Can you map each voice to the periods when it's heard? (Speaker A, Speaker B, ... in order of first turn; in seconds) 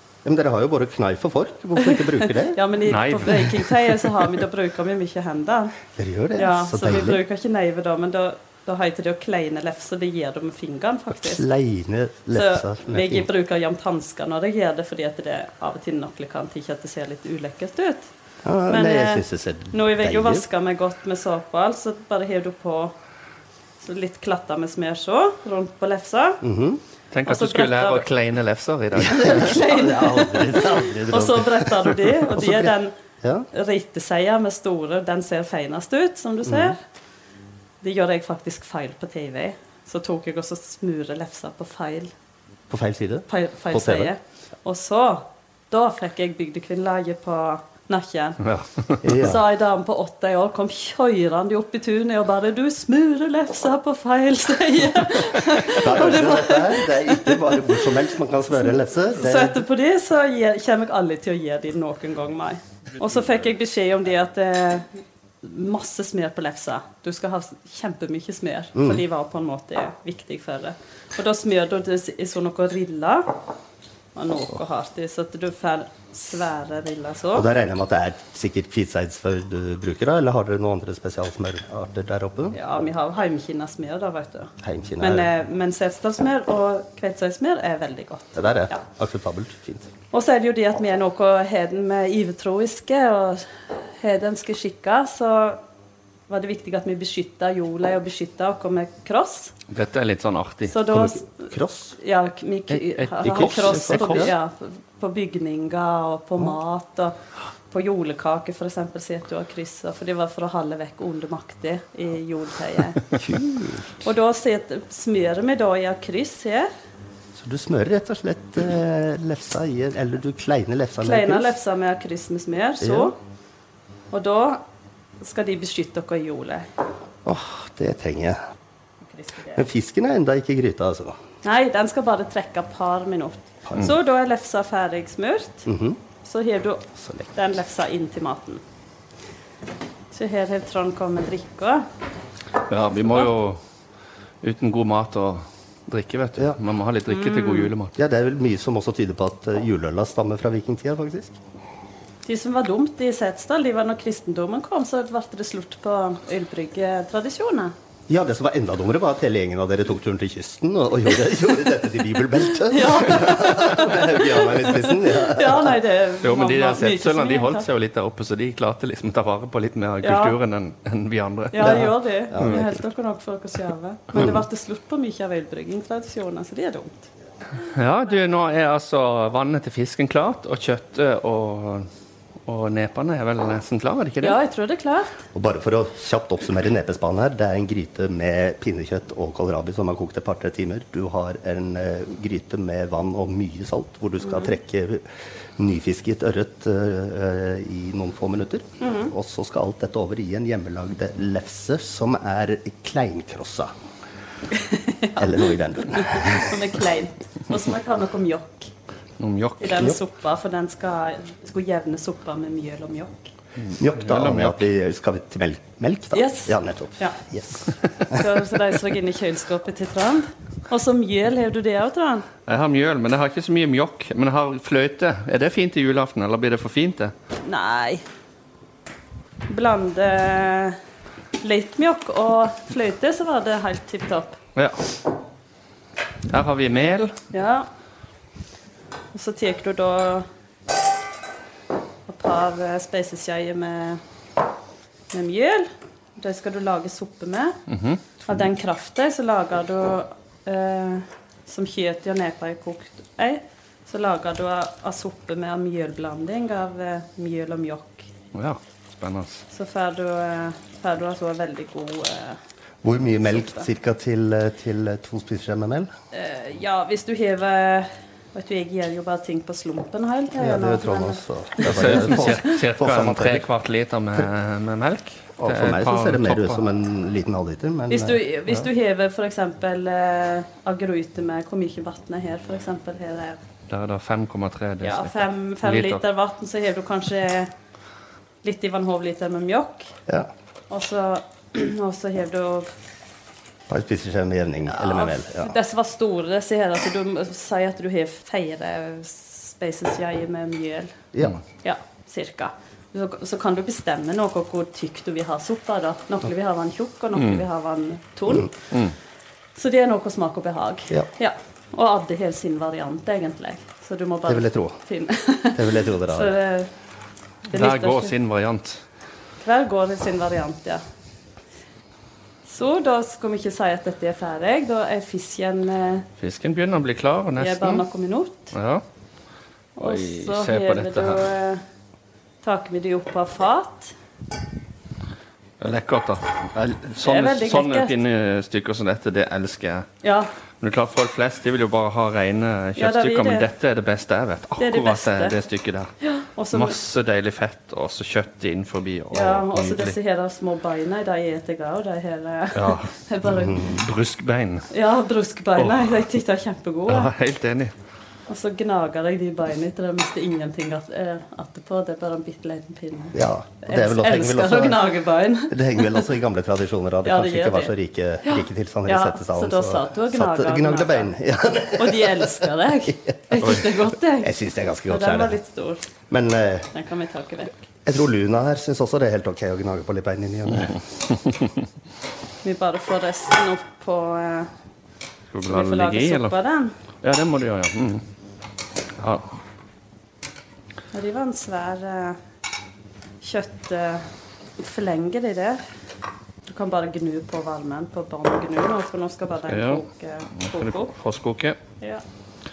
Speaker A: 0.2-2.6, 6.0-7.2, 11.1-13.3, 18.4-20.4, 26.4-26.8, 29.0-33.5, 36.4-36.7, 42.7-44.1, 49.0-49.4, 55.7-59.6, 68.7-69.0, 77.3-82.5, 84.6-85.3, 88.3-89.9, 100.9-101.9, 103.2-104.3, 113.1-113.9, 117.3-121.5, 122.8-123.1, 127.2-128.4, 129.5-131.2, 133.7-133.9, 135.7-136.0, 136.9-137.3, 147.9-151.4, 158.1-165.8, 171.6-172.8, 174.1-174.4, 185.3-195.1, 195.6-203.7, 205.2-206.6, 213.8-218.2, 262.8-265.9, 270.4-273.4, 275.4-278.2, 293.7-295.5, 301.1-301.4, 314.3-314.8, 315.5-316.3, 353.3-353.8, 363.1-364.9, 365.5-373.6, 374.2-375.4, 376.1-376.7, 377.8-380.8
Speaker B: 1.8-5.8, 6.3-11.5, 12.3-18.1, 18.7-22.9, 23.8-26.4, 27.2-28.1, 29.0-32.9, 33.5-36.8, 37.8-42.1, 43.3-48.4, 49.1-57.9, 59.1-64.9, 65.4-73.3, 74.1-77.5, 82.5-88.8, 90.1-95.6, 96.3-99.5, 100.7-107.1, 107.7-113.1, 114.0-116.7, 121.0-123.2, 124.1-124.6, 125.2-126.7, 129.0-129.6, 131.4-135.7, 136.2-138.6, 140.1-141.8, 147.1-147.7, 152.2-157.7, 162.6-167.7, 170.0-170.3, 171.5-177.1, 184.2-185.2, 194.2-194.5, 198.8-199.1, 204.5-208.7, 209.6-213.3, 216.1-217.2, 218.1-222.3, 227.4-228.0, 229.5-230.8, 231.4-234.4, 237.3-237.7, 239.1-240.3, 242.1-244.0, 245.1-247.6, 248.2-258.1, 259.5-262.4, 263.3-263.7, 266.1-272.4, 277.9-283.4, 284.8-287.5, 288.4-289.9, 290.7-292.7, 294.7-301.0, 301.6-308.5, 309.6-316.7, 317.5-318.1, 319.4-320.8, 322.4-326.1, 327.4-328.5, 329.8-331.6, 332.4-333.9, 337.0-337.9, 340.0-340.3, 342.8-343.5, 344.6-345.4, 346.0-346.8, 349.1-353.7, 354.7-357.1, 358.3-366.1, 367.0-367.7, 368.2-371.1, 371.8-374.3, 374.9-375.9, 376.7-377.6, 382.4-384.5, 385.4-386.7, 390.9-392.2, 393.2-394.1, 394.6-395.6, 396.5-400.9
Speaker C: 2.9-3.8, 27.1-29.6, 48.4-49.1, 99.7-100.7, 102.7-104.3, 142.7-143.6, 144.4-147.9, 166.2-172.6, 177.6-181.9, 182.4-184.4, 209.2-209.9, 213.6-214.6, 222.5-227.1, 234.5-234.9, 236.3-237.2, 247.7-248.0, 258.3-259.4, 271.6-276.6, 283.7-286.0, 307.1-307.4, 317.5-318.8, 326.2-327.8, 328.5-328.8, 329.8-331.2, 335.6-339.9, 340.6-345.9, 346.5-349.9, 352.5-352.9, 353.4-354.7, 355.6-356.0, 356.9-357.7, 385.3-386.3, 387.0-388.0, 389.0-389.3, 399.5-399.8, 400.4-401.6